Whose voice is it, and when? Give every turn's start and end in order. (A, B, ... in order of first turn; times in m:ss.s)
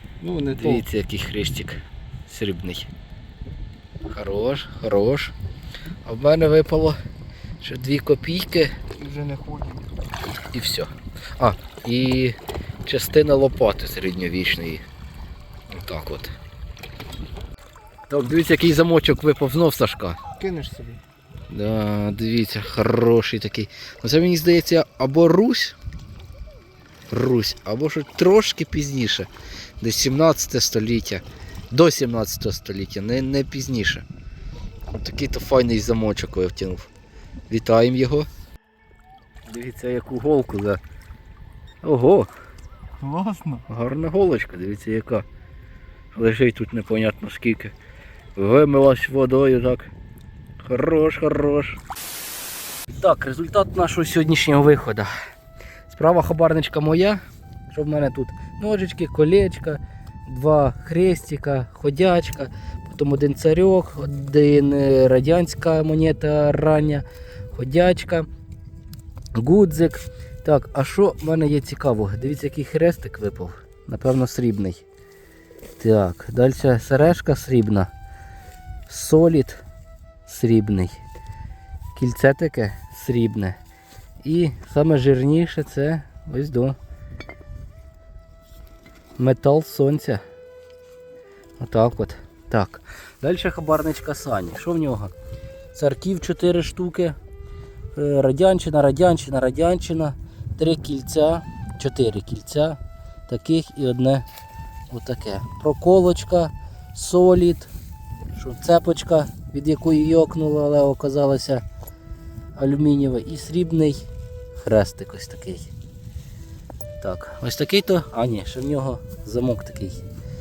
0:00.2-0:00.9 A
0:00.6-0:02.9 B
0:04.1-0:05.4 B
0:06.0-0:07.0 B
0:07.6-0:08.7 B
0:09.0-0:09.9 A
0:10.5-0:14.9 B
0:15.7-0:16.4 B
0:18.1-0:20.2 B
0:20.4-0:21.0 A
0:21.5-0:25.8 B
0:27.1-0:29.3 B
0:29.8-0:34.0 B
0:34.9-0:36.9 B
0:37.5-0:38.3 B
0:39.5-0:40.8 B
0:41.8-0:42.3 B
0:43.0-0:43.6 A
0:43.7-0:45.3 B
0:46.1-0:47.8 B
0:48.4-0:49.9 B
0:50.6-0:51.8 B
0:52.9-0:55.1 B
0:55.9-1:08.3 B
1:09.4-1:14.8 B
1:15.8-1:17.9 B
1:18.9-1:19.6 B
1:20.3-1:21.0 B
1:22.0-1:23.6 B
1:24.2-1:26.8 B
1:29.2-1:30.2 B
1:31.6-1:35.1 B
1:35.7-1:37.2 B
1:37.9-1:44.3 B
1:44.9-1:47.7 B
1:48.3-1:51.6 B
1:52.6-1:54.0 B
1:54.6-1:55.7 B
1:57.0-2:00.0 B